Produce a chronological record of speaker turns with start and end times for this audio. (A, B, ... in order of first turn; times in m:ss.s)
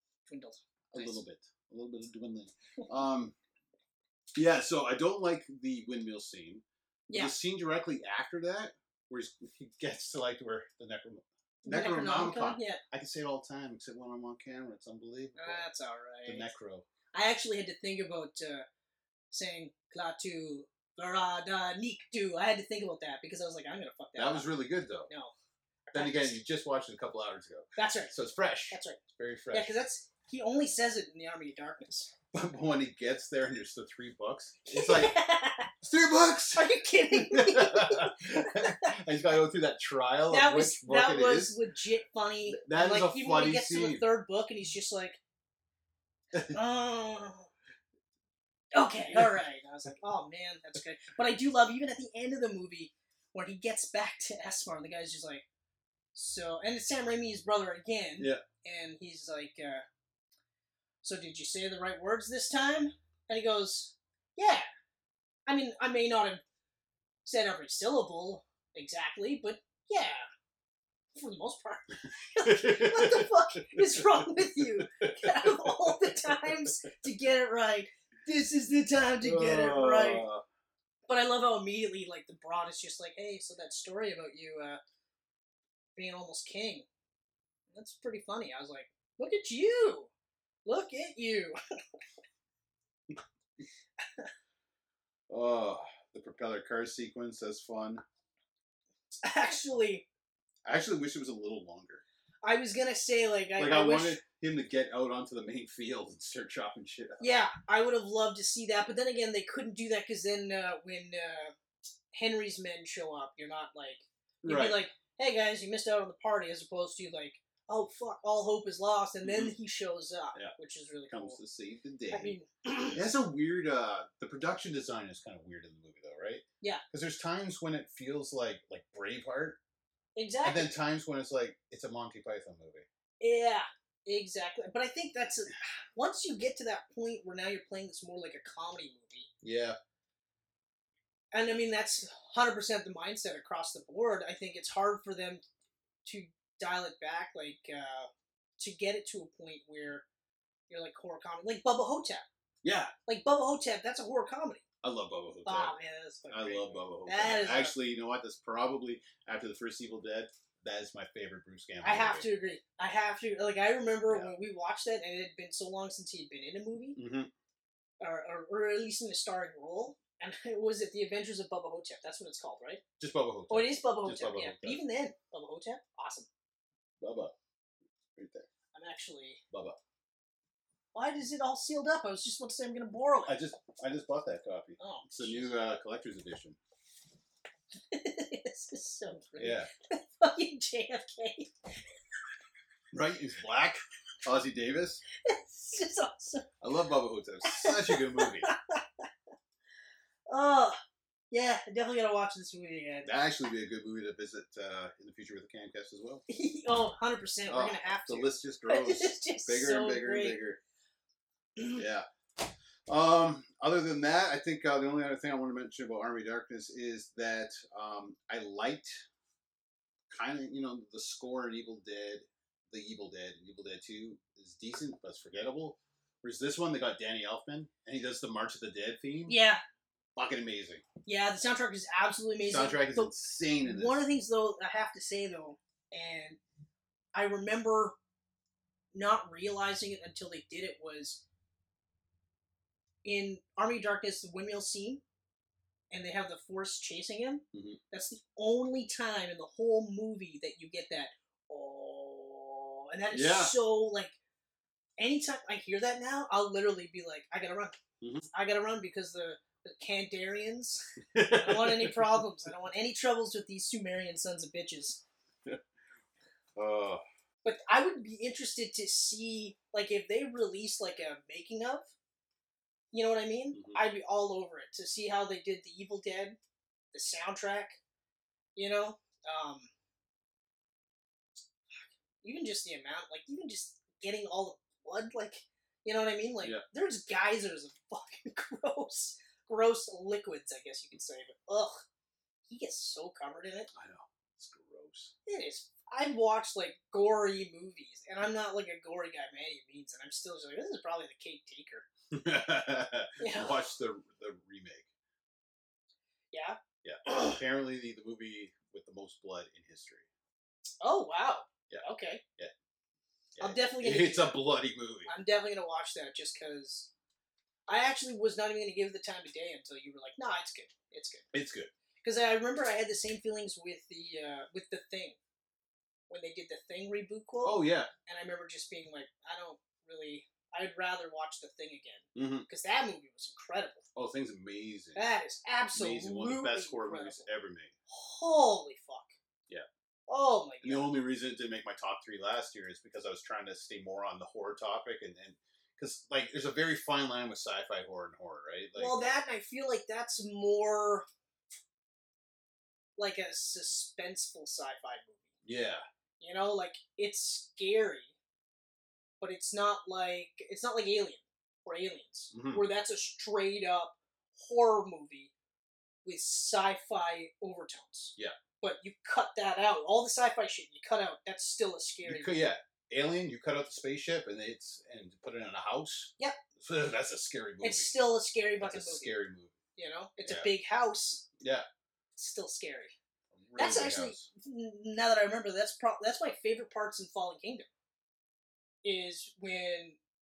0:00.3-0:01.2 A
0:00.9-0:03.4 B
0:04.4-0:15.6 B
0:07.1-0:07.3 A
0:11.6-0:12.8 A
0:15.4-0:16.5 A
0:16.2-0:16.9 B
0:17.1-0:18.7 A
0:19.3-0:24.5 A
0:24.2-0:25.1 B
0:25.1-0:25.3 A
0:25.9-0:26.4 A
0:25.9-0:29.7 B
0:27.8-0:28.1 A
0:28.7-0:29.0 A
0:29.5-0:32.1 A
0:32.3-0:35.2 B
0:34.7-0:35.7 A
0:35.8-0:41.6 B
0:36.5-0:39.0 A
0:40.3-0:45.2 A
0:42.5-0:44.0 B
0:46.3-0:46.6 B
0:46.5-0:47.5 A
0:48.7-0:55.4 A
0:49.1-0:49.4 B
0:56.1-0:59.8 A
1:01.0-1:04.7 A
1:05.5-1:06.4 A
1:07.2-1:10.2 A
1:11.1-1:20.3 A
1:12.4-1:16.7 B
1:19.2-1:20.4 B
1:21.1-1:24.8 A
1:26.0-1:26.9 A
1:27.7-1:30.1 A
1:30.6-1:31.6 A
1:35.3-1:38.0 B
1:39.2-1:40.1 A
1:40.6-1:42.0 B
1:42.4-1:44.2 A
1:43.6-1:47.3 B
1:47.2-1:51.5 A
1:52.1-2:01.4 A
1:54.4-1:54.8 B
1:59.2-1:59.6 B
2:01.1-2:02.3 B
2:02.1-2:03.0 A
2:02.9-2:09.6 B
2:10.2-2:10.7 A
2:10.4-2:12.9 B
2:13.2-2:19.3 A
2:19.4-2:19.8 B
2:21.3-2:25.4 A
2:26.0-2:30.0 A
2:30.7-2:32.2 A
2:32.6-2:32.9 B
2:33.1-2:34.6 A
2:34.8-2:35.8 B
2:35.5-2:37.8 A
2:36.3-2:42.3 B
2:41.8-2:47.0 A
2:44.1-2:44.3 B
2:47.0-2:47.3 B
2:48.0-2:52.8 A
2:53.0-2:54.8 B
2:53.5-2:56.3 A
2:57.0-2:57.3 B
2:58.2-2:58.5 B
2:58.7-2:59.4 A
2:59.5-2:59.8 B
3:00.9-3:03.3 A
3:03.2-3:06.6 B
3:04.8-3:05.6 A
3:07.9-3:11.7 A
3:09.4-3:09.7 B
3:12.9-3:15.0 B
3:15.2-3:16.5 A
3:16.6-3:18.5 B
3:17.4-3:19.1 A
3:20.3-3:20.8 A
3:21.3-3:23.1 A
3:23.0-3:26.2 B
3:26.3-3:30.4 A
3:27.5-3:30.6 B
3:31.7-3:39.0 B
3:40.1-3:49.4 B
3:49.3-3:49.6 A
3:50.2-3:50.8 B
3:51.1-3:56.4 A
3:52.4-3:54.0 B
3:57.1-3:58.0 A
3:58.9-4:01.2 A
4:03.0-4:05.0 A
4:05.9-4:14.2 A
4:07.5-4:07.8 B
4:13.1-4:13.6 B
4:15.0-4:17.8 A
4:18.0-4:18.3 B
4:18.3-4:25.0 A
4:21.1-4:22.2 B
4:26.6-4:27.0 B
4:27.4-4:31.9 A
4:32.9-4:36.4 A
4:33.5-4:33.8 B
4:36.9-4:37.8 A
4:38.6-4:39.7 A
4:42.2-4:51.8 A
4:52.5-4:53.7 A
4:53.7-4:55.1 B
4:55.3-5:01.9 A
5:02.1-5:04.9 B
5:03.2-5:03.6 A
5:06.3-5:07.4 A
5:06.8-5:10.1 B
5:10.8-5:12.2 A
5:13.4-5:15.2 B
5:13.4-5:14.4 A
5:15.1-5:16.9 A
5:17.7-5:21.3 A
5:21.3-5:21.7 B
5:22.0-5:25.2 A
5:26.1-5:33.9 A
5:27.4-5:27.9 B
5:32.2-5:32.5 B
5:34.0-5:35.0 B
5:35.0-5:37.3 A
5:35.7-5:37.7 B
5:37.9-5:39.2 A
5:40.1-5:40.9 A
5:40.6-5:49.2 B
5:48.8-5:51.1 A
5:53.0-5:55.3 A
5:55.4-5:55.8 B
5:56.2-5:58.2 A
5:59.2-6:05.3 A
6:02.3-6:02.6 B
6:06.0-6:12.5 A
6:12.0-6:17.9 B
6:17.6-6:19.2 A
6:18.6-6:19.6 B
6:19.8-6:21.3 A
6:21.4-6:21.6 B
6:22.2-6:22.9 A
6:23.3-6:24.3 B
6:23.6-6:27.7 A
6:28.8-6:30.0 A